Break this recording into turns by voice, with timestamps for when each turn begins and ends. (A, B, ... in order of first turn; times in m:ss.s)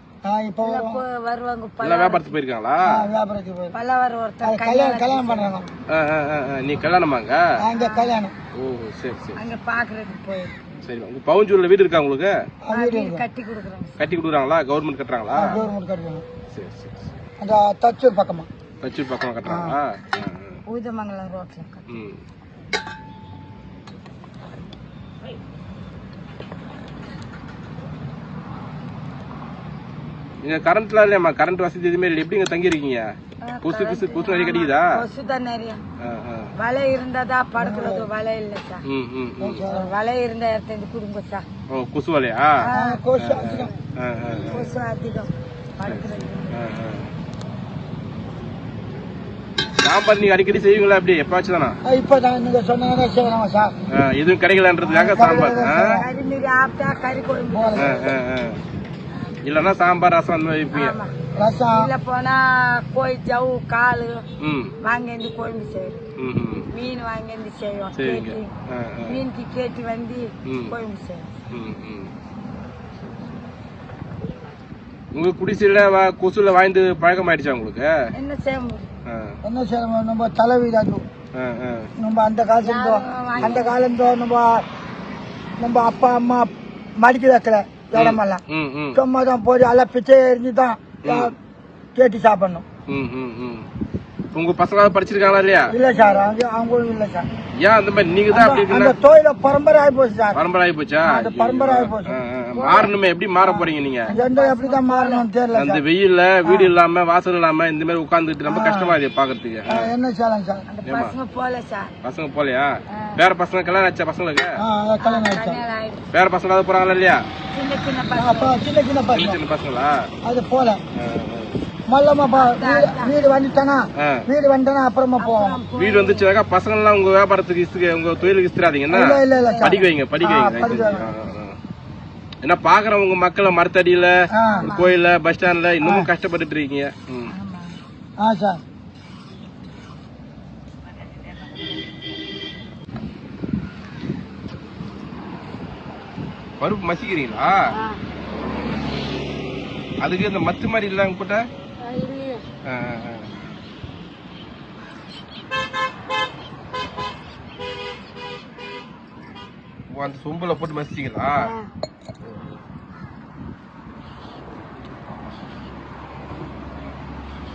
0:00.2-0:01.0 A
0:00.6-0:02.4 B
0:01.8-0:03.1 C
0:02.8-0:03.7 A
0:03.7-0:05.6 B
0:04.4-0:05.6 A
0:05.9-0:07.4 C
0:07.6-0:08.3 A
0:07.7-0:08.2 B
0:08.6-0:09.4 C
0:09.4-0:10.5 B
0:10.8-0:12.3 C
0:12.6-0:13.2 A
0:12.7-0:14.1 B
0:14.0-0:15.6 C
0:15.3-0:16.2 A
0:16.5-0:17.0 C
0:17.4-0:18.5 A
0:18.8-0:20.6 C
0:19.4-0:19.8 A
0:20.7-0:21.9 B
0:21.9-0:22.2 C
0:30.4-0:33.1 C
0:33.4-0:35.8 B
0:33.6-0:34.9 C
0:36.0-0:36.5 C
0:36.6-0:38.8 B
0:37.6-0:38.1 A
0:38.9-0:39.6 C
0:39.4-0:39.9 A
0:39.6-0:41.5 B
0:41.7-0:42.6 C
0:42.6-0:43.0 B
0:42.7-0:43.7 A
0:43.2-0:44.7 C
0:44.4-0:46.6 B
0:45.8-0:47.1 C
0:49.8-0:51.8 C
0:51.8-0:53.7 A
0:53.9-0:56.0 C
0:54.8-0:56.1 A
0:55.2-0:58.1 B
0:57.5-0:58.0 A
0:57.8-0:58.6 C
0:59.4-1:01.0 C
1:00.7-1:01.1 B
1:01.4-1:01.9 A
1:01.7-1:04.2 B
1:04.4-1:04.7 C
1:04.8-1:06.0 B
1:06.2-1:06.7 C
1:06.7-1:08.5 B
1:08.0-1:09.2 C
1:09.1-1:11.4 B
1:10.5-1:10.7 C
1:11.5-1:12.1 C
1:15.1-1:17.9 C
1:18.1-1:18.9 B
1:19.1-1:19.4 C
1:19.4-1:21.0 A
1:21.4-1:21.9 C
1:22.0-1:24.6 A
1:22.6-1:23.7 B
1:25.6-1:28.4 A
1:27.9-1:29.0 C
1:28.9-1:31.3 A
1:31.0-1:31.3 C
1:31.9-1:32.6 A
1:32.9-1:33.6 C
1:34.3-1:35.7 C
1:35.7-1:37.3 A
1:37.6-1:39.0 C
1:38.3-1:40.4 A
1:40.3-1:44.1 C
1:41.0-1:42.2 A
1:42.5-1:45.2 B
1:44.1-1:45.8 A
1:45.5-1:49.9 C
1:46.4-1:46.7 A
1:48.4-1:49.0 A
1:49.7-1:50.6 A
1:50.7-1:51.9 B
1:50.8-1:51.1 C
1:52.0-1:54.5 C
1:52.9-1:53.2 B
1:54.6-1:55.6 A
1:55.0-1:56.0 B
1:56.1-1:57.2 C
1:57.5-1:58.6 B
1:58.2-1:59.4 A
1:59.1-1:59.9 C
2:00.2-2:00.8 A
2:00.9-2:01.6 C
2:01.9-2:05.6 A
2:02.3-2:03.2 B
2:04.0-2:04.2 C
2:05.2-2:06.3 B
2:05.8-2:11.6 C
2:08.9-2:11.1 A
2:09.4-2:09.8 B
2:12.4-2:17.3 C
2:14.3-2:14.7 A
2:14.4-2:15.0 B
2:15.8-2:16.1 A
2:17.3-2:17.8 B
2:18.2-2:18.6 A
2:26.6-2:27.6 C
2:27.7-2:28.0 B
2:30.0-2:31.4 C
2:31.8-2:32.4 B
2:32.6-2:33.3 C
2:39.9-2:41.4 C
2:41.4-2:41.7 B